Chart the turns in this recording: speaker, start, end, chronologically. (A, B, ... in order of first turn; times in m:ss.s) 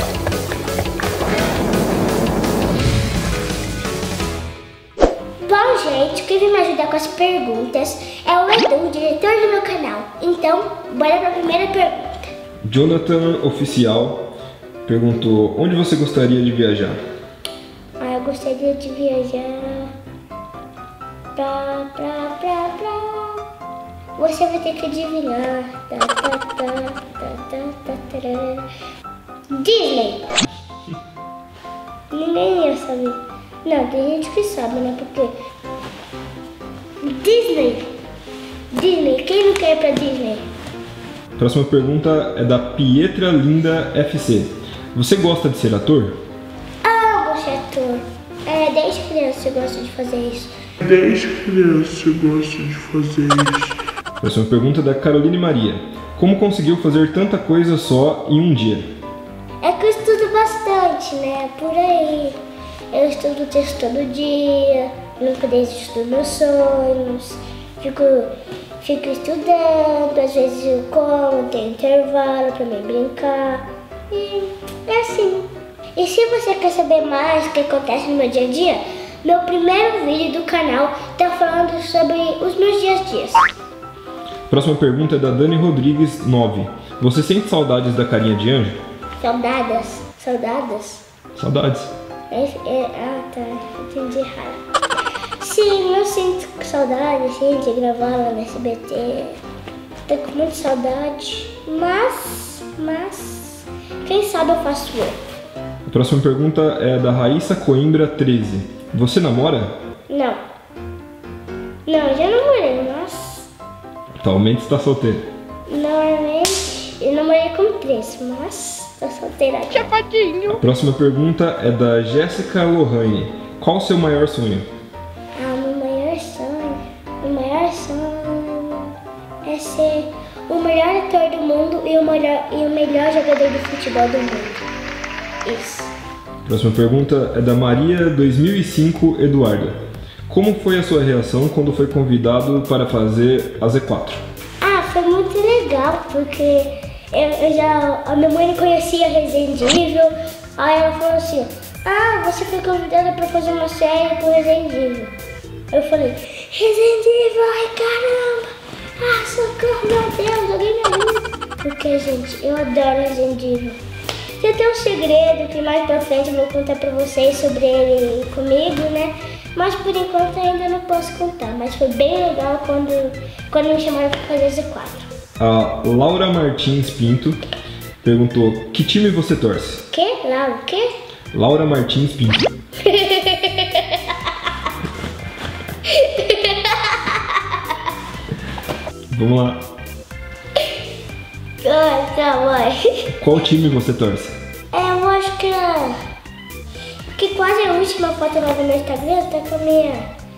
0:05.4-0:12.3 A
0:12.6-0:14.3 B
0:14.8-0:17.0 B
0:18.0-0:19.9 A
0:21.4-0:23.4 A
0:24.2-0:28.7 A
0:29.5-0:30.3 A
0:32.1-0:35.4 A
0:37.0-0:37.9 A
0:38.7-0:40.5 A
0:41.4-0:46.2 B
0:46.8-0:50.6 A
0:50.8-0:53.8 C
0:54.2-0:58.9 B
0:59.6-1:02.4 A
1:02.9-1:23.5 A
1:24.5-1:28.8 B
1:29.2-1:31.0 A
1:31.4-1:31.9 B
1:32.3-1:34.6 A
1:35.4-1:39.4 A
1:40.1-1:45.2 A
1:45.9-1:49.8 B
1:50.1-1:50.4 A
1:51.9-1:53.5 A
1:54.2-1:55.3 B
1:55.7-2:00.4 A
2:00.4-2:04.7 B
2:05.4-2:08.9 A
2:09.4-2:14.7 A
2:15.4-2:15.9 A
2:16.5-2:24.2 B
2:24.6-2:35.1 A
2:35.7-2:43.8 A
2:44.4-2:55.1 A
2:55.4-2:57.4 B
2:58.0-2:59.9 B
2:59.9-3:00.9 A
3:01.3-3:02.5 B
3:02.8-3:04.5 A
3:05.9-3:07.8 A
3:09.1-3:09.6 B
3:11.6-3:13.1 A
3:13.1-3:14.4 B
3:14.7-3:16.0 A
3:17.2-3:20.1 A